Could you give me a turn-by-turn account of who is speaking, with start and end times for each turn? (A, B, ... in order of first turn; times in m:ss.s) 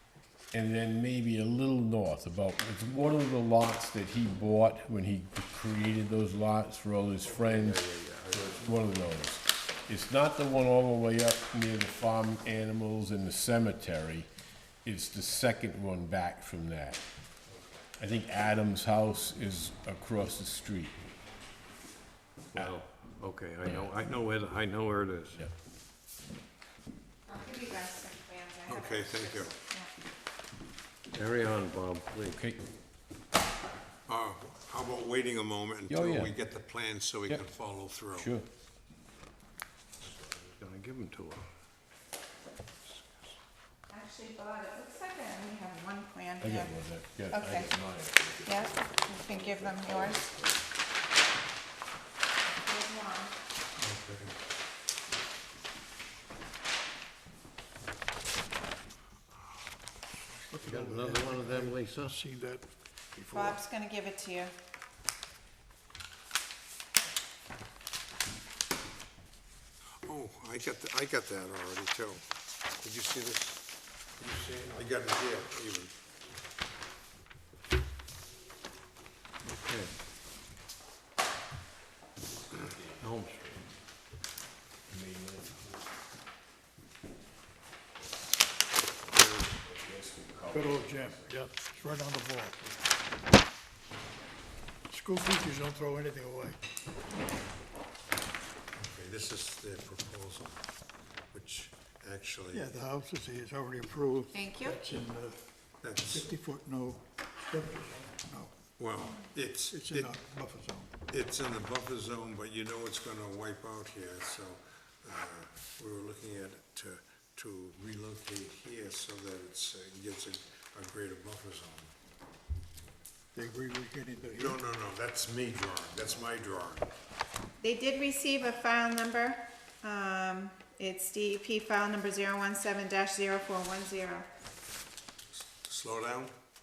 0:00.5-0:14.3 A
0:07.2-0:08.7 B
0:14.8-0:17.0 A
0:18.0-0:21.0 A
0:22.5-0:25.4 B
0:23.6-0:23.9 A
0:27.3-0:29.9 C
0:28.7-0:29.6 D
0:31.1-0:32.4 B
0:32.3-0:32.6 A
0:34.1-0:38.3 D
0:35.9-0:36.3 A
0:38.1-0:38.4 A
0:40.0-0:41.4 B
0:42.8-0:43.3 B
0:43.9-0:46.7 C
0:46.4-0:49.5 A
0:47.3-0:47.7 C
0:48.4-0:50.2 C
0:49.6-0:50.6 B
0:52.5-0:53.3 C
0:53.8-0:54.4 D
1:00.5-1:03.6 E
1:00.5-1:02.2 B
1:03.3-1:04.5 C
1:10.0-1:12.2 D
1:12.8-1:13.6 D
1:14.2-1:15.9 D
1:19.6-1:19.9 B
1:22.3-1:23.6 A
1:23.0-1:23.5 B
1:24.9-1:25.8 A
1:29.0-1:31.3 A
1:30.5-1:32.6 E
1:34.9-1:36.6 E
1:38.8-1:40.6 D
1:41.3-1:42.7 D
1:42.5-1:45.4 E
1:44.3-1:44.8 C
1:45.8-1:46.3 D
1:46.1-1:48.5 E
1:48.8-1:50.1 D
1:49.7-1:50.9 E
1:51.1-2:01.9 D
2:03.3-2:04.6 E
2:04.4-2:06.9 D
2:07.6-2:14.3 C
2:15.5-2:16.3 D